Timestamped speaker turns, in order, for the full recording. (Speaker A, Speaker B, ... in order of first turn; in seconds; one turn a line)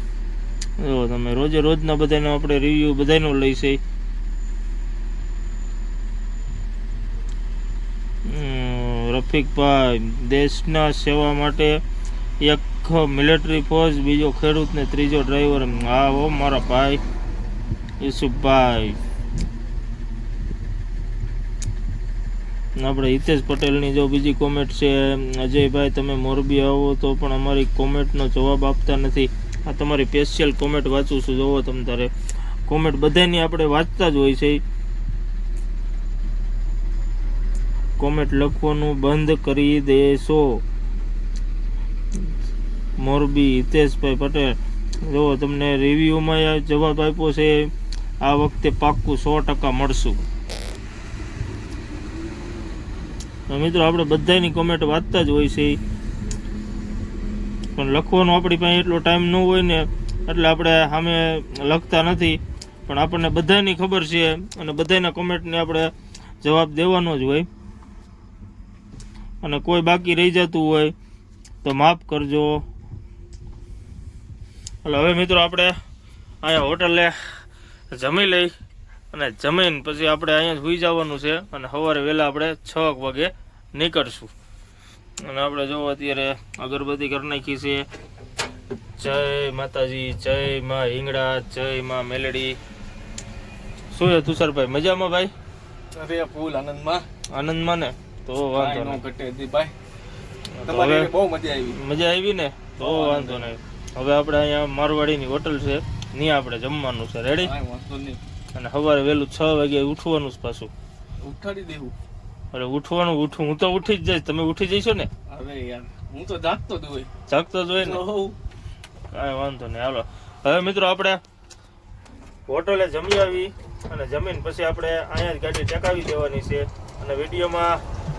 Speaker A: 0.8-3.8
Speaker A: 8.2-11.8
Speaker A: 12.4-17.0
Speaker A: 18.0-19.0
Speaker A: 22.8-32.1
Speaker A: 32.7-34.6
Speaker A: 38.0-40.6
Speaker A: 43.0-47.7
Speaker A: 48.2-50.2
Speaker A: 53.5-55.8
Speaker A: 57.8-65.9
Speaker A: 66.4-67.5
Speaker A: 69.4-70.9
Speaker A: 71.6-72.6
Speaker A: 74.8-75.8
Speaker A: 76.4-77.2
Speaker A: 77.9-78.5
Speaker A: 79.1-84.3
Speaker A: 85.2-87.9
Speaker A: 89.0-92.6
Speaker A: 93.9-95.3
Speaker B: 96.0-97.1
Speaker A: 97.3-99.0
Speaker B: 98.5-99.7
Speaker A: 100.5-101.1
Speaker B: 100.6-101.8
Speaker A: 101.7-107.5
Speaker B: 102.8-103.5
Speaker B: 107.4-108.2
Speaker A: 108.5-110.7
Speaker B: 111.2-111.9
Speaker A: 112.5-115.1
Speaker B: 115.3-117.1
Speaker A: 117.3-118.0
Speaker B: 117.8-118.4
Speaker A: 119.1-121.2
Speaker A: 122.5-127.8